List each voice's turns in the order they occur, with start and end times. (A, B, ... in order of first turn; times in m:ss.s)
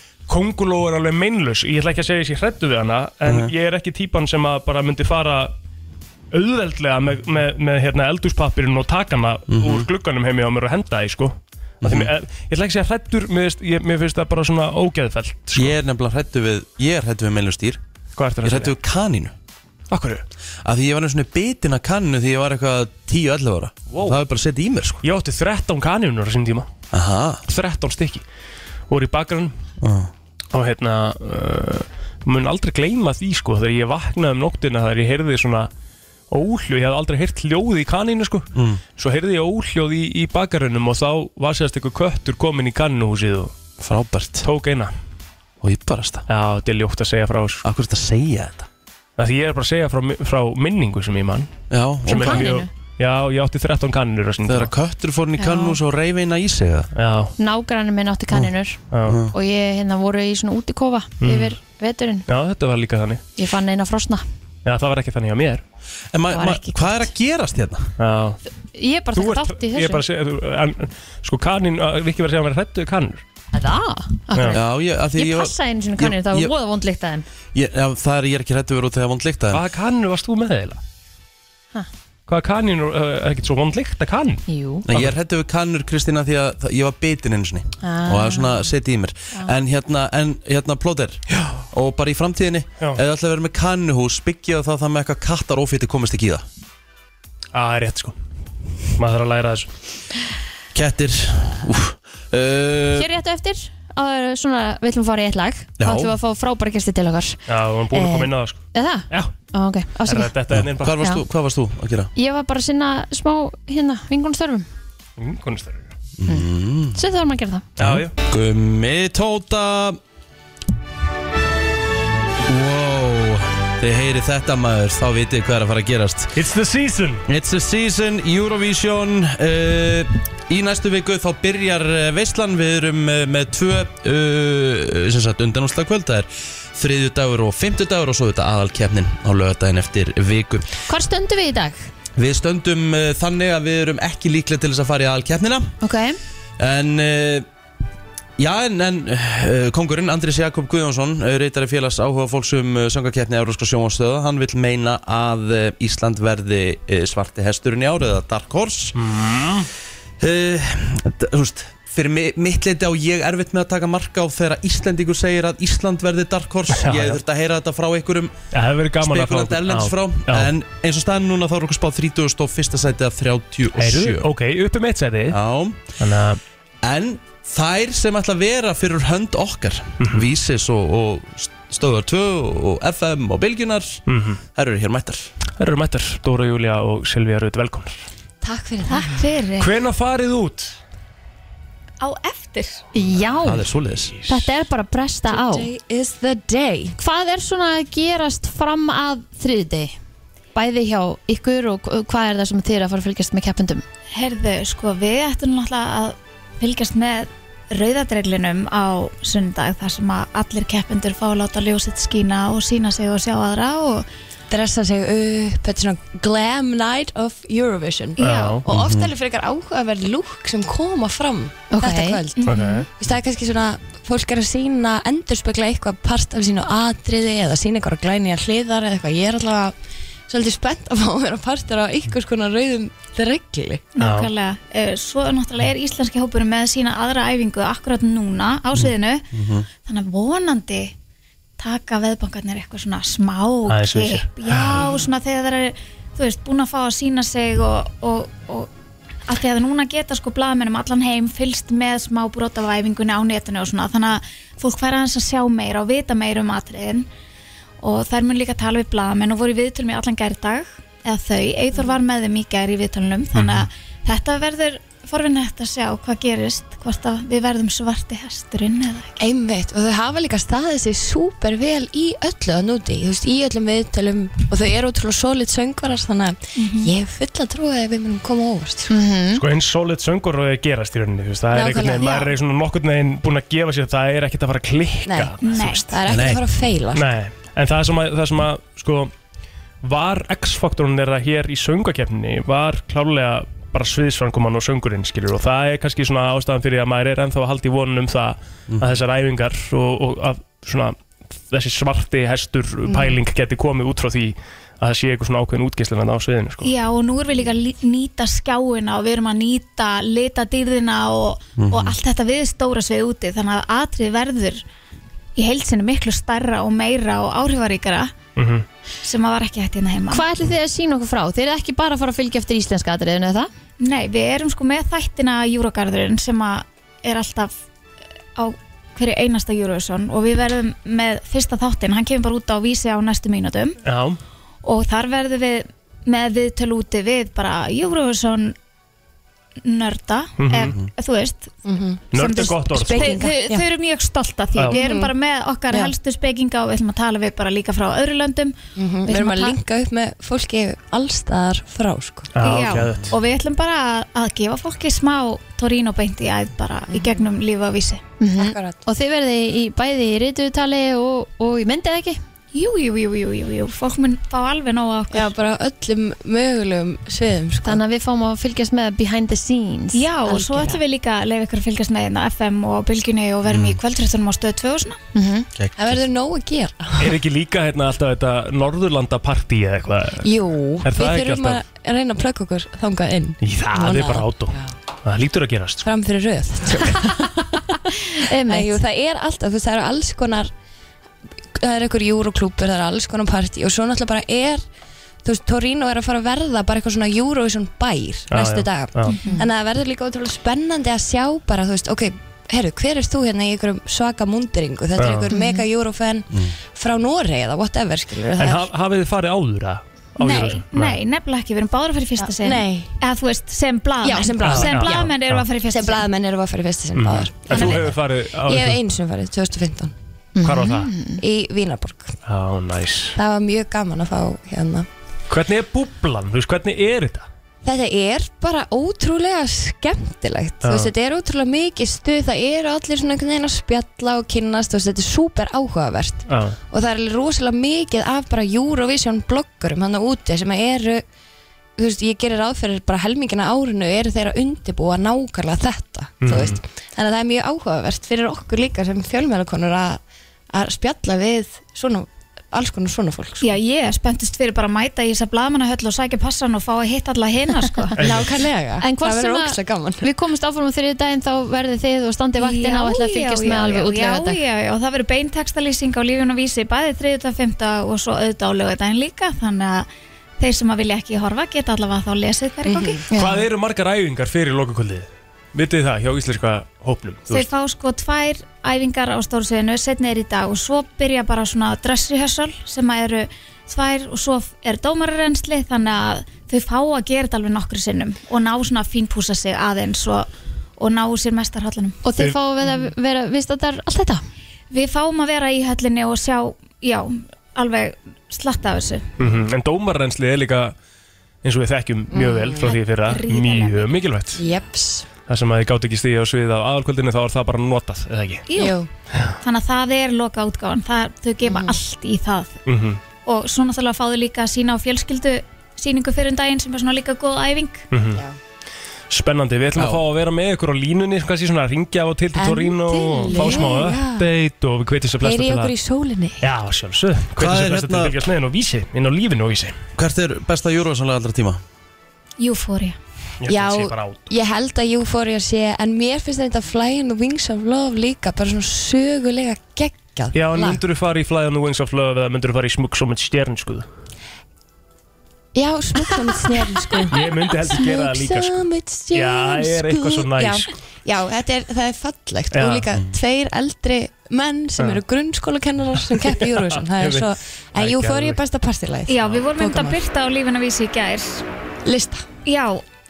0:00.3-0:05.5 A
0:03.3-0:03.5 B
0:06.3-0:15.8 A
0:09.5-0:09.9 B
0:11.8-0:12.1 B
0:15.6-0:17.8 B
0:18.2-0:18.8 A
0:18.4-0:19.3 B
0:19.9-0:20.2 A
0:20.6-0:25.0 B
0:23.9-0:24.2 A
0:25.0-0:26.7 A
0:26.9-0:27.4 B
0:27.5-0:28.2 A
0:28.9-0:29.5 A
0:29.8-0:30.1 B
0:30.5-0:35.7 A
0:36.3-0:43.5 A
0:38.6-0:38.8 B
0:43.8-0:44.5 B
0:44.4-0:44.9 A
0:45.6-0:46.3 B
0:46.3-0:47.7 A
0:47.6-0:48.7 B
0:49.2-0:51.5 A
0:51.7-0:52.5 B
0:52.1-0:54.7 A
0:52.1-0:52.7 C
0:54.4-0:56.9 B
0:55.4-0:55.8 C
0:57.0-0:57.3 A
0:57.4-0:58.8 C
0:58.9-0:59.2 A
0:59.1-0:59.3 B
0:59.3-1:02.3 C
1:01.2-1:01.6 A
1:02.3-1:03.2 A
1:03.4-1:04.2 C
1:04.6-1:05.6 A
1:06.1-1:07.9 B
1:06.3-1:07.1 C
1:08.0-1:08.4 A
1:08.7-1:10.0 C
1:09.2-1:13.2 A
1:13.5-1:14.6 C
1:14.5-1:16.5 B
1:15.1-1:17.3 C
1:17.5-1:19.6 B
1:19.5-1:20.8 A
1:22.3-1:25.1 A
1:24.5-1:24.8 C
1:24.9-1:36.4 B
1:27.8-1:28.7 C
1:37.5-1:38.2 A
1:39.0-1:39.7 A
1:40.7-1:43.1 B
1:43.0-1:47.4 C
1:45.8-1:46.1 B
1:47.5-1:49.3 A
1:47.9-1:50.3 C
1:50.1-1:51.0 A
1:50.5-1:52.1 B
1:52.2-1:54.7 C
1:55.2-1:55.9 A
1:56.2-1:57.0 B
1:56.3-1:57.7 C
1:57.8-1:58.1 A
1:57.8-2:00.0 B
2:02.5-2:06.4 B
2:06.4-2:07.2 A
2:07.3-2:20.7 B
2:20.9-2:21.9 C
2:22.2-2:25.7 B
2:25.8-2:26.2 C
2:26.6-2:27.5 B
2:28.4-2:39.0 B
2:39.0-2:39.7 A
2:40.2-2:48.3 B
2:46.7-2:47.2 A
2:48.5-2:50.5 A
2:49.0-2:54.3 B
2:53.8-2:55.4 A
2:55.3-2:55.8 B
2:56.0-2:56.4 A
2:56.8-3:04.0 B
3:04.1-3:04.4 A
3:04.6-3:05.3 B
3:05.6-3:08.0 A
3:08.4-3:09.3 D
3:08.9-3:09.7 E
3:09.6-3:10.8 A
3:12.0-3:12.8 E
3:12.9-3:13.7 C
3:13.4-3:14.1 B
3:14.3-3:15.7 C
3:15.3-3:17.0 D
3:17.0-3:20.0 C
3:20.6-3:23.8 C
3:24.1-3:34.1 E
3:34.5-3:49.7 D
3:38.2-3:38.7 E
3:38.2-3:38.6 A
3:38.7-3:39.1 B
3:41.7-3:42.6 C
3:42.4-3:42.8 E
3:42.5-3:42.9 A
3:50.3-3:53.9 D
3:54.0-3:59.3 E
3:54.0-3:54.3 A
3:58.8-3:59.7 B
3:59.8-4:00.9 E
4:01.6-4:08.7 E
4:03.7-4:04.8 A
4:09.3-4:17.1 E
4:17.8-4:29.2 E
4:29.2-4:38.9 D
4:36.6-4:36.9 E
4:38.9-4:39.4 C
4:39.4-4:45.9 A
4:41.5-4:42.2 D
4:42.0-4:42.3 E
4:45.1-4:45.4 D
4:45.4-4:45.9 E
4:45.9-4:47.1 D
4:46.1-4:46.4 B
4:47.0-4:49.1 A
4:49.8-5:01.0 A
4:58.7-4:59.0 B
5:01.5-5:06.7 A
5:06.6-5:14.6 E
5:11.6-5:12.0 B
5:15.4-5:18.1 E
5:18.4-5:18.6 A
5:19.0-5:20.3 E
5:20.1-5:23.5 C
5:23.8-5:27.6 E
5:28.4-5:33.8 E
5:33.8-5:34.2 A
5:34.6-5:38.6 E
5:39.6-5:41.5 E
5:40.4-5:40.8 A
5:41.6-5:42.1 D
5:42.1-5:43.2 A
5:42.1-5:48.5 E
5:42.7-5:43.6 D
5:44.7-5:45.1 D
5:48.8-5:52.4 D
5:49.1-5:49.6 E
5:52.4-5:53.2 A
5:52.4-5:58.0 E
5:56.9-5:57.2 D
5:58.2-6:02.2 C
5:58.4-5:58.8 D
6:02.5-6:05.3 E
6:05.1-6:07.8 D
6:07.6-6:10.7 C
6:09.9-6:15.0 E
6:13.5-6:13.8 B
6:15.2-6:15.5 C
6:15.6-6:16.0 B
6:15.8-6:17.1 D
6:17.0-6:20.3 A
6:20.2-6:24.6 D
6:20.8-6:21.6 A
6:23.4-6:25.9 A
6:25.8-6:27.6 D
6:27.0-6:28.8 C
6:28.5-6:30.5 D
6:31.6-6:34.6 D
6:35.2-6:48.7 D
6:38.3-6:39.2 A
6:39.1-6:39.5 C
6:45.0-6:45.3 A
6:45.3-6:45.6 C
6:48.4-6:51.0 A
6:50.2-6:56.1 E
6:52.2-6:53.0 D
6:54.0-6:55.1 D
6:54.4-6:55.4 A
6:55.7-6:59.9 D
6:57.0-6:58.8 A
6:57.5-6:57.8 E
7:00.4-7:01.2 C
7:00.4-7:00.9 A
7:01.2-7:02.2 D
7:02.3-7:03.2 A
7:03.2-7:04.9 D
7:05.3-7:07.3 A
7:07.6-7:21.0 D
7:10.6-7:10.9 A
7:16.3-7:16.6 A
7:21.8-7:30.0 D
7:26.2-7:26.6 A
7:30.5-7:33.5 D
7:33.4-7:38.0 E
7:38.0-7:40.1 D
7:38.0-7:38.3 A
7:38.8-7:44.4 C
7:42.4-7:49.9 E
7:50.4-7:53.1 E
7:52.7-7:53.0 D
7:53.1-7:53.4 C
7:53.2-7:57.5 A
7:57.3-8:12.0 E
8:12.0-8:14.2 C
8:12.6-8:12.9 D
8:14.7-8:19.1 E
8:19.2-8:20.8 A
8:21.4-8:24.4 A
8:22.1-8:22.8 D
8:22.6-8:23.9 E
8:24.4-8:25.1 D
8:25.3-8:28.4 A
8:28.5-8:28.8 E
8:28.6-8:28.9 D
8:29.4-8:32.6 E
8:31.4-8:31.8 D
8:32.7-8:33.0 A
8:33.2-8:37.9 E
8:37.9-8:38.2 A
8:39.1-8:45.7 A
8:39.8-8:40.0 B
8:42.4-8:44.3 D
8:45.2-8:46.5 D
8:46.4-8:49.8 A
8:47.4-8:48.2 B
8:50.0-8:51.6 B
8:52.4-8:53.0 E
8:53.4-8:54.3 A
8:53.5-9:00.8 D
9:00.3-9:03.9 A
9:05.6-9:20.0 D
9:07.1-9:10.7 A
9:12.5-9:12.9 A
9:16.2-9:18.4 A
9:19.1-9:21.4 E
9:21.8-9:22.3 D
9:22.4-9:22.8 E